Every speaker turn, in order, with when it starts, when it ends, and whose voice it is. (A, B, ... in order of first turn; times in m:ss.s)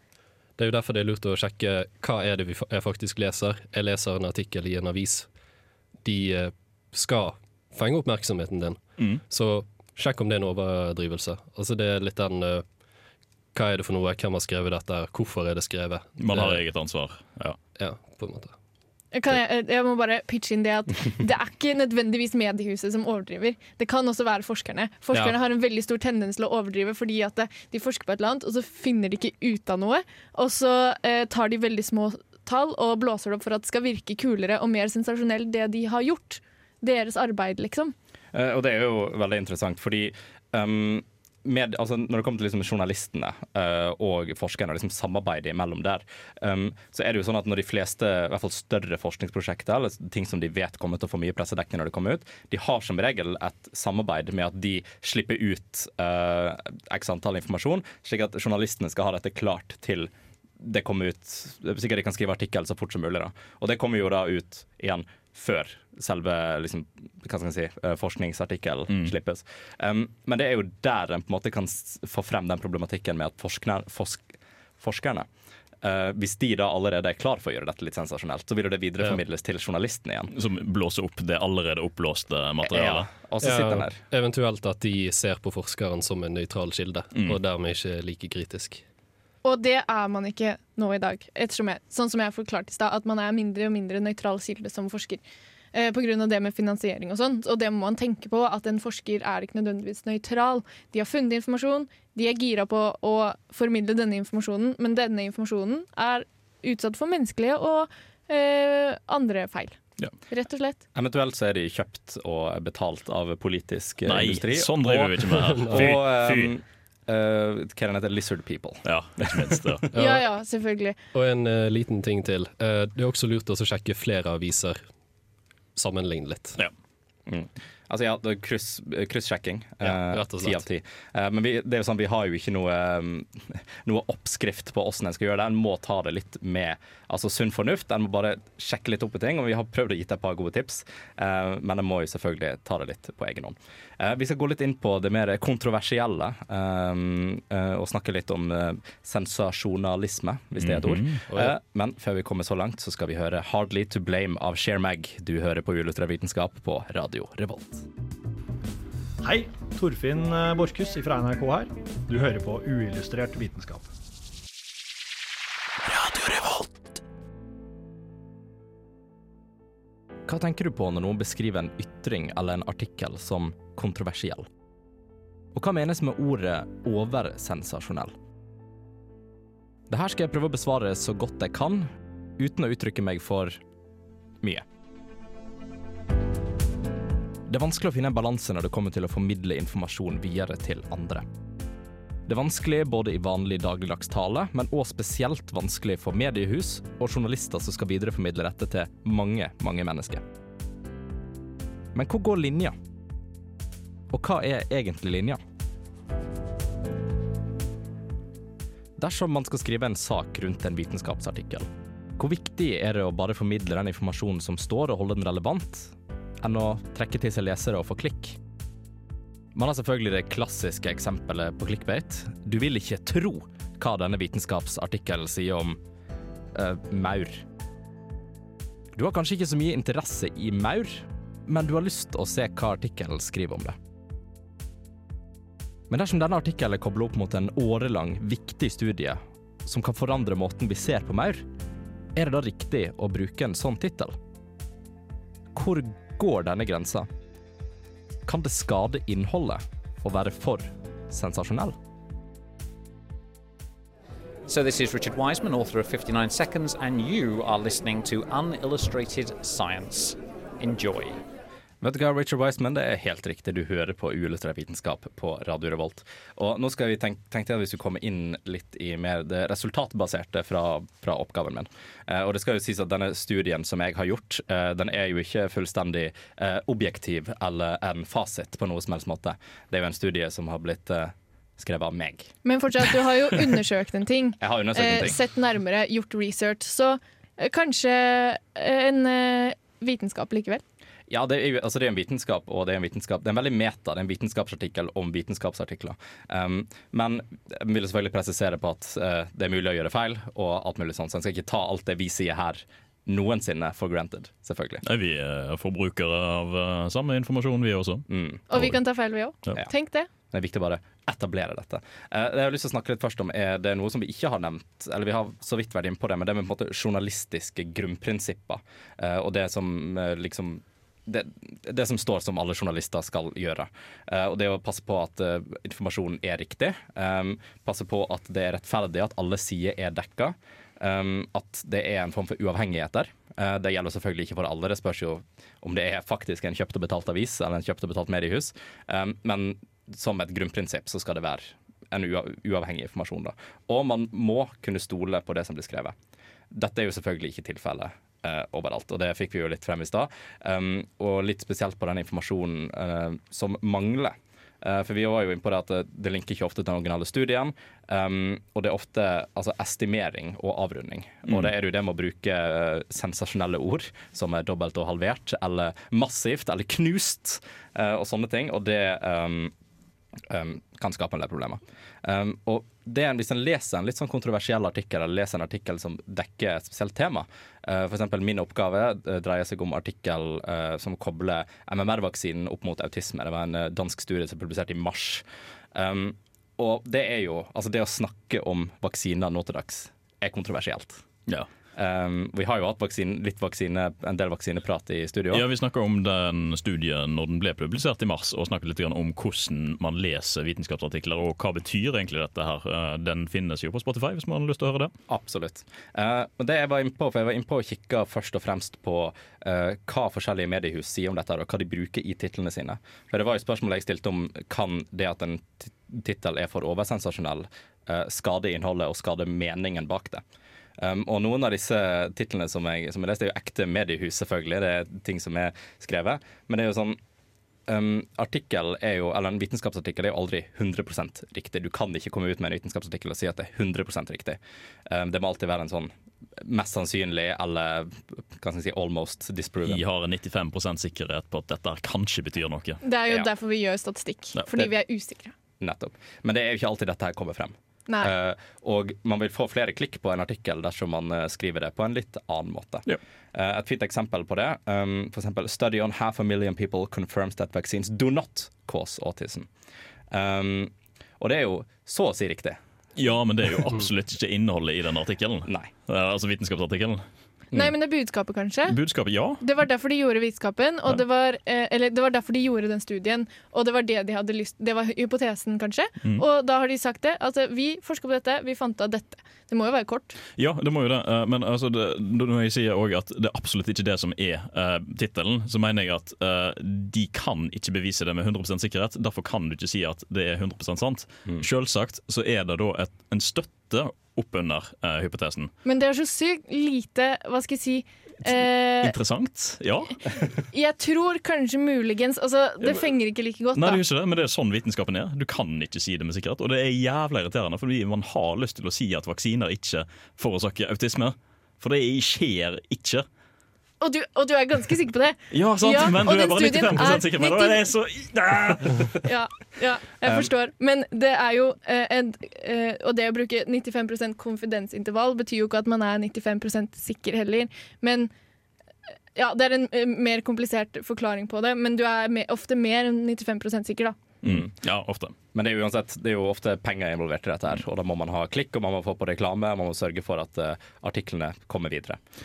0:00.6-0:05.3 A
0:06.0-0:12.6 A
0:09.0-0:09.2 B
0:13.5-0:16.6 A
0:16.2-0:17.6 B
0:17.8-0:18.5 A
0:19.1-0:37.9 C
0:38.3-1:14.2 D
1:14.8-1:15.3 D
1:15.8-1:20.3 D
1:20.3-1:23.1 B
1:22.6-1:24.0 D
1:23.4-1:28.8 A
1:29.4-1:35.2 C
1:35.7-1:50.8 C
1:50.9-1:59.6 D
1:54.0-1:56.5 B
1:55.6-1:55.9 A
1:58.8-1:59.8 B
1:59.9-2:00.2 A
1:59.9-2:01.0 C
2:01.1-2:04.8 A
2:05.8-2:06.6 A
2:07.3-2:37.8 D
2:09.8-2:10.6 A
2:30.6-2:31.2 B
2:39.2-2:43.9 E
2:50.3-2:54.4 D
2:55.5-2:58.1 D
2:59.9-3:03.6 D
3:07.5-3:11.2 D
3:12.3-3:20.2 D
3:21.9-3:22.7 D
3:24.1-3:25.4 D
3:29.0-3:38.4 D
3:39.5-3:45.8 D
3:46.5-3:47.4 D
3:48.9-3:53.8 D
3:55.9-4:01.4 D
4:02.1-4:04.1 D
4:05.5-4:07.1 D
4:08.2-4:11.7 D
4:14.4-4:21.2 F
4:21.8-4:42.3 D
4:42.4-4:50.6 C
4:44.4-4:45.2 D
4:51.1-5:04.8 D
5:04.8-5:08.8 B
5:08.1-5:08.4 D
5:08.5-5:10.1 C
5:10.3-5:45.9 D
5:46.5-6:09.5 D
6:10.3-6:25.2 D
6:25.7-6:31.0 D
6:31.8-6:35.4 D
6:35.3-6:44.9 B
6:45.1-7:00.2 D
7:00.8-7:07.0 D
7:07.7-7:19.8 D
7:19.6-7:22.8 B
7:22.8-7:25.3 C
7:25.6-7:39.5 D
7:40.1-7:42.6 D
7:43.0-7:47.0 B
7:45.4-7:45.7 D
7:47.5-7:48.8 C
7:48.6-7:49.4 B
7:49.4-8:00.2 C
8:00.4-8:15.5 B
8:15.6-8:18.9 C
8:18.2-8:20.0 B
8:20.5-8:23.8 C
8:22.6-8:22.9 B
8:23.5-8:33.0 B
8:33.8-8:37.6 C
8:35.3-8:39.0 B
8:39.0-8:48.1 C
8:49.1-8:54.0 C
8:54.2-8:55.1 B
8:55.3-9:02.0 D